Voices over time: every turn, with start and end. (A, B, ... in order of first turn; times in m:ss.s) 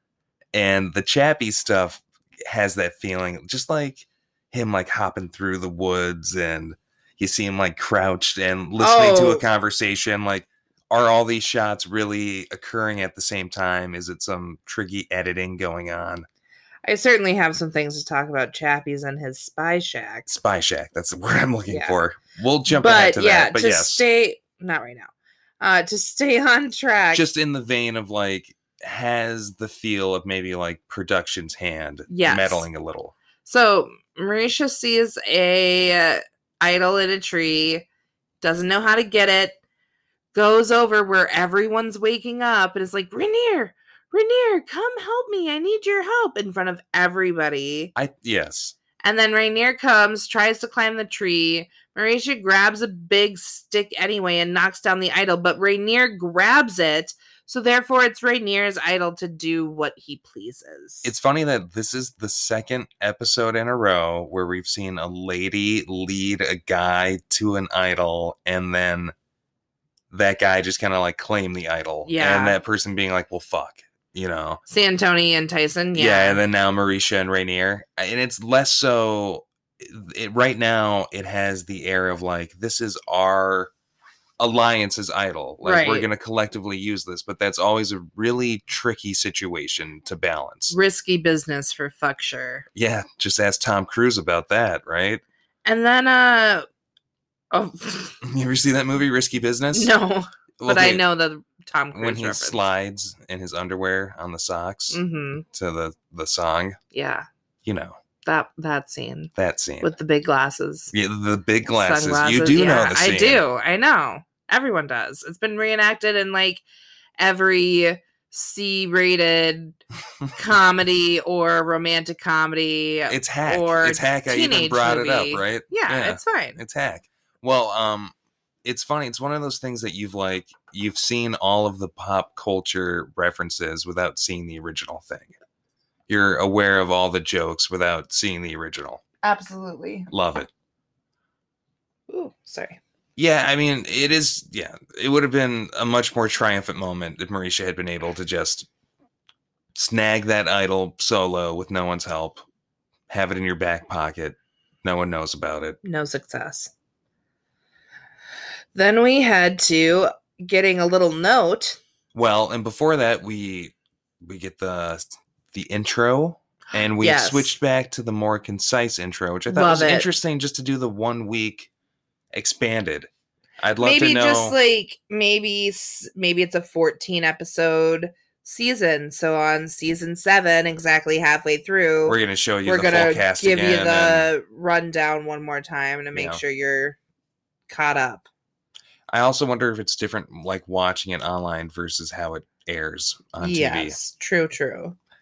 0:00.5-0:16.3 A
0:08.8-0:09.4 B
0:16.8-0:20.3 B
0:20.3-0:24.0 A
0:21.7-0:22.0 B
0:22.7-0:27.3 B
0:27.1-0:33.2 A
0:32.1-0:32.7 B
0:33.4-0:37.9 B
0:38.4-0:39.6 B
0:40.3-0:47.9 B
0:48.0-0:48.8 A
0:49.0-1:01.1 B
1:01.0-1:09.1 A
1:10.1-1:14.6 A
1:12.1-1:12.6 B
1:14.7-1:16.4 B
1:16.0-1:23.7 A
1:24.4-1:30.8 A
1:25.6-1:26.1 B
1:30.7-1:32.7 B
1:32.8-1:35.2 A
1:35.6-1:36.7 B
1:37.5-1:38.2 B
1:38.2-1:39.9 A
1:39.7-1:42.7 B
1:40.6-1:41.0 A
1:41.9-1:46.8 A
1:44.9-1:45.4 B
1:46.9-1:47.3 B
1:47.6-1:48.0 A
1:48.2-1:50.9 B
1:49.4-1:49.9 A
1:50.9-1:53.4 A
1:51.7-1:56.6 B
1:57.2-1:59.8 B
2:00.3-2:06.6 B
2:03.1-2:15.3 A
2:16.1-2:19.0 A
2:19.2-2:20.1 B
2:20.1-2:20.5 A
2:22.1-2:22.8 B
2:23.2-2:28.7 A
2:29.8-2:32.4 A
2:33.1-2:35.8 A
2:35.8-2:36.7 B
2:38.8-2:41.8 B
2:42.1-2:51.7 A
2:47.0-2:47.6 B
2:49.5-2:50.1 B
2:52.3-2:53.1 A
2:53.6-2:54.6 A
2:53.8-3:07.0 B
3:02.1-3:04.3 A
3:06.1-3:06.4 A
3:07.7-3:08.3 B
3:09.1-3:14.0 A
3:13.4-3:15.0 B